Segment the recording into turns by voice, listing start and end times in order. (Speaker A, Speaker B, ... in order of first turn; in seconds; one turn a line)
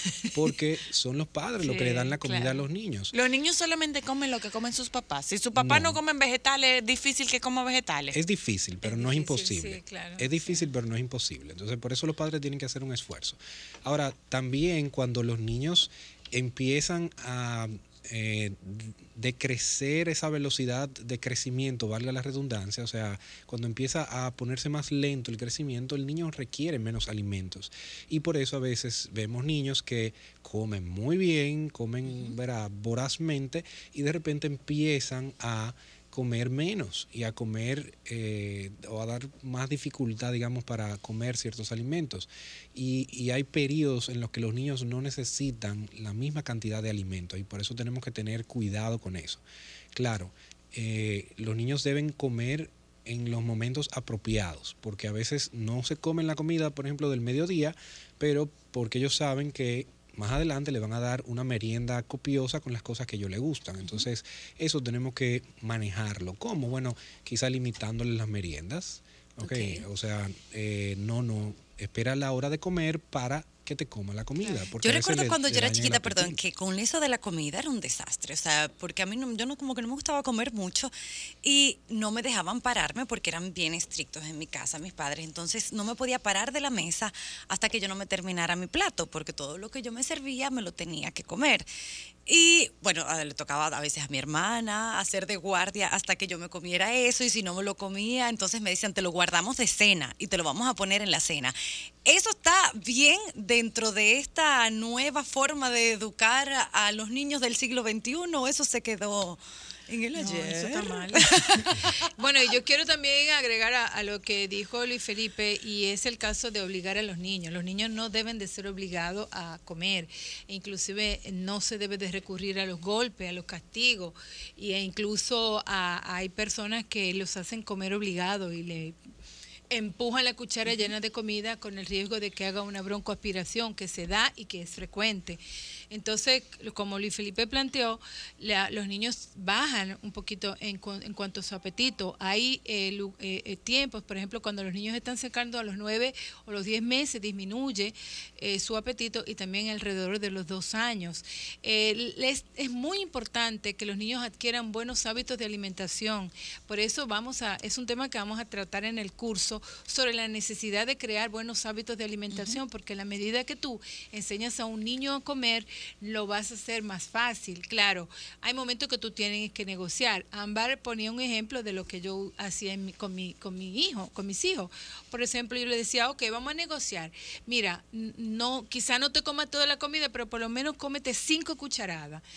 Speaker A: 0.3-3.1
Speaker B: 1.6-2.6
Speaker C: 3.1-8.2
Speaker A: 5.6-6.0
Speaker A: 8.1-49.4
Speaker B: 8.8-10.7
Speaker A: 49.9-76.4
Speaker D: 69.4-69.8
Speaker D: 74.8-91.7
Speaker D: 92.3-111.8
Speaker B: 110.1-129.0
Speaker B: 129.7-135.4
Speaker B: 135.9-182.2
Speaker D: 162.3-162.6